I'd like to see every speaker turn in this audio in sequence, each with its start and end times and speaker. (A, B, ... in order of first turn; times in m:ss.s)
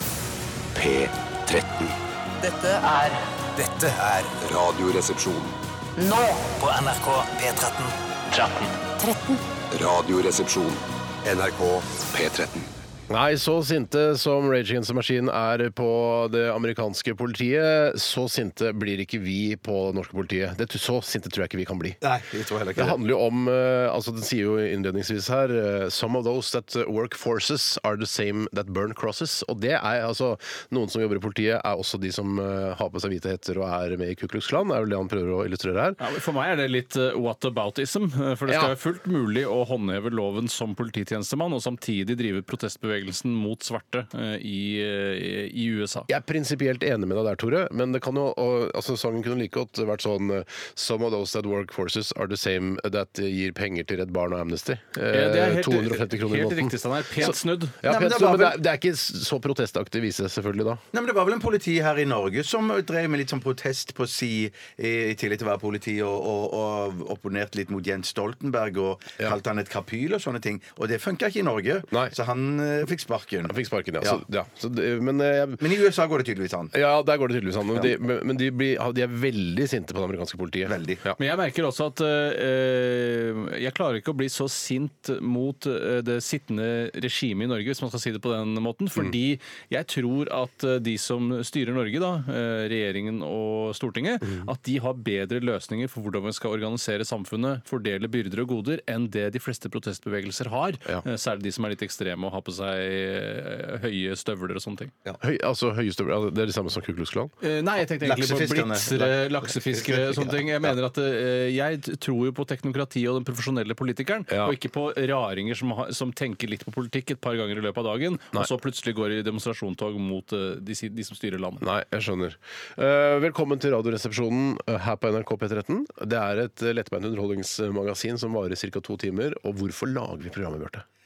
0:00.8-0:01.9 A
0:02.4-0:04.4 B
0:04.4-0:05.5 A
0:06.0-0:09.4 B
0:09.7-0:12.7 A
0:13.1-0:22.0 C
0:22.0-0:23.0 D
0:22.8-0:36.0 C
0:36.0-0:46.1 E
0:38.5-0:38.8 C
0:46.1-1:00.8 C
0:55.1-0:57.8 E
0:57.8-0:58.6 D
1:00.9-1:14.2 D
1:13.5-1:15.6 C
1:15.6-1:16.7 D
1:16.7-1:21.2 C
1:20.6-1:21.0 D
1:21.2-1:44.9 E
1:45.2-1:47.3 C
1:47.4-2:01.6 E
1:48.0-1:50.4 D
1:54.3-1:54.6 C
2:01.6-2:10.8 C